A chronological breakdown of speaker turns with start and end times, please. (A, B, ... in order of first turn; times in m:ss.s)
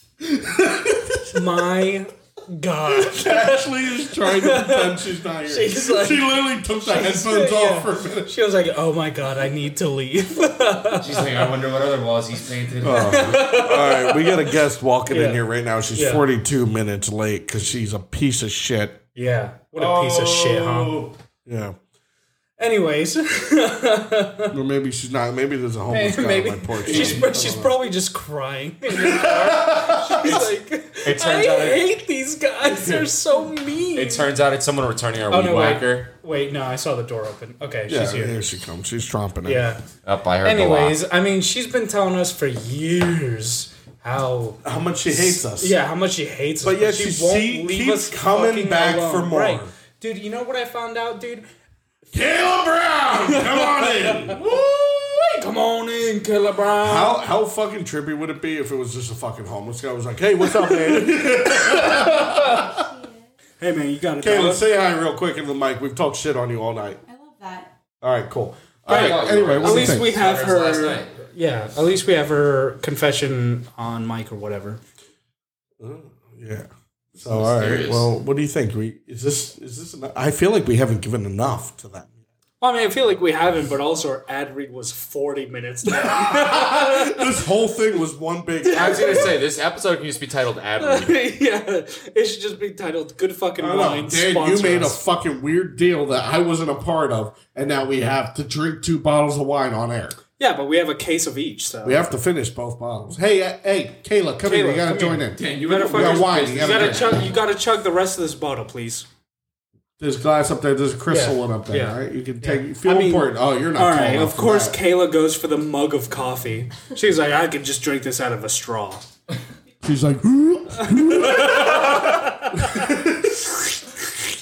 0:00.2-0:01.3 A
0:01.3-0:11.3 B
0:02.9-0:08.3 A
0:11.0-0:13.5 C
0:12.8-0:19.0 A
0:13.0-0:14.5 B
0:15.1-0:15.4 B
0:16.0-0:16.2 B
0:19.2-0:21.0 B
0:19.8-0:21.8 A
0:22.6-0:24.5 B
0:24.5-0:27.8 A
0:25.9-0:34.3 B
0:26.8-0:27.3 C
0:28.9-0:30.4 A
0:30.2-0:31.8 C
0:32.7-0:33.1 A
0:34.0-0:36.1 C
0:35.3-0:38.4 B
0:37.9-0:39.7 A
0:39.4-0:39.8 B
0:40.0-0:41.0 C
0:40.4-0:51.5 B
0:44.6-0:45.8 A
0:46.6-0:49.7 A
0:52.1-0:54.6 A
0:53.2-0:57.2 B
0:56.8-1:02.9 A
1:00.5-1:02.8 B
1:03.6-1:04.6 B
1:04.2-1:07.0 A
1:08.0-1:10.1 A
1:08.9-1:11.2 C
1:08.9-1:14.8 B
1:15.8-1:22.2 A
1:17.2-1:18.1 C
1:22.6-1:27.3 B
1:25.9-1:29.3 A
1:28.6-1:29.3 B
1:28.7-1:31.2 C
1:30.8-1:35.0 B
1:33.6-1:40.2 A
1:40.4-1:42.1 B
1:41.8-1:47.2 A
1:44.4-1:49.1 B
1:45.4-1:47.3 C
1:50.0-1:54.8 A
1:51.1-1:59.1 B
1:59.8-2:04.0 A
2:00.8-2:02.9 B